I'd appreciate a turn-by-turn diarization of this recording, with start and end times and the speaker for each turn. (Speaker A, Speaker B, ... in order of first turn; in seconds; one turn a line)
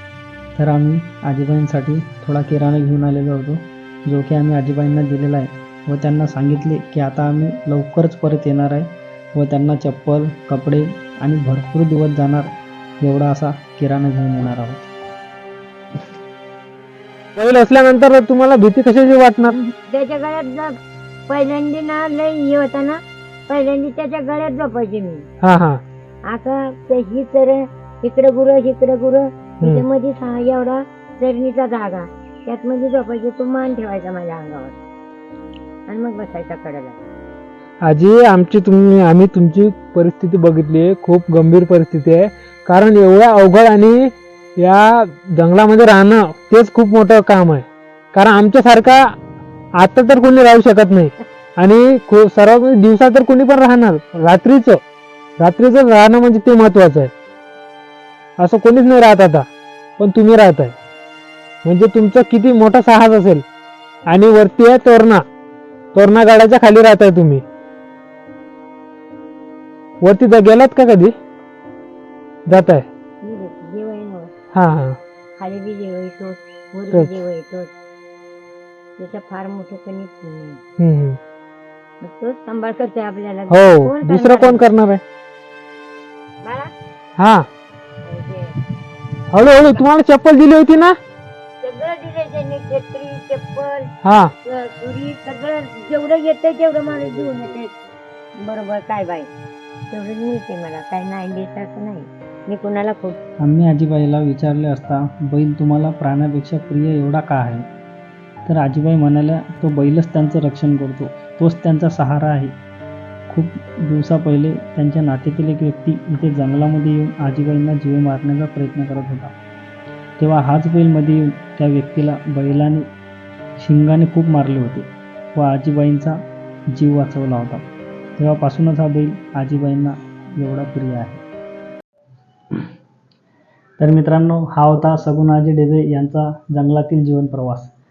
Speaker A: 0.6-14.9
Speaker B: 17.4-19.5
Speaker C: 19.4-20.8
Speaker C: 21.3-25.2
Speaker B: 25.4-25.8
Speaker C: 26.3-34.8
Speaker C: 35.9-37.0
Speaker B: 37.8-49.1
Speaker B: 49.8-54.8
Speaker B: 55.4-57.1
Speaker B: 58.4-59.5
Speaker B: 60.0-60.7
Speaker B: 61.6-63.4
Speaker B: 64.0-65.2
Speaker B: 65.9-67.4
Speaker B: 70.0-71.1
Speaker B: 72.5-72.8
Speaker C: 73.2-74.3
Speaker B: 74.5-75.0
Speaker C: 75.4-77.7
Speaker C: 79.0-80.6
Speaker B: 80.8-81.2
Speaker C: 82.0-84.6
Speaker B: 83.5-85.0
Speaker C: 86.4-86.7
Speaker B: 87.2-87.5
Speaker C: 88.0-88.6
Speaker B: 89.3-91.0
Speaker C: 91.6-93.9
Speaker B: 94.0-94.3
Speaker C: 94.4-97.8
Speaker C: 98.4-99.3
Speaker C: 99.9-103.2
Speaker A: 103.4-107.7
Speaker A: 108.5-112.5
Speaker A: 113.3-119.3
Speaker A: 120.2-122.9
Speaker A: 123.6-126.2
Speaker A: 126.7-127.7
Speaker A: 128.2-131.2
Speaker A: 133.8-137.7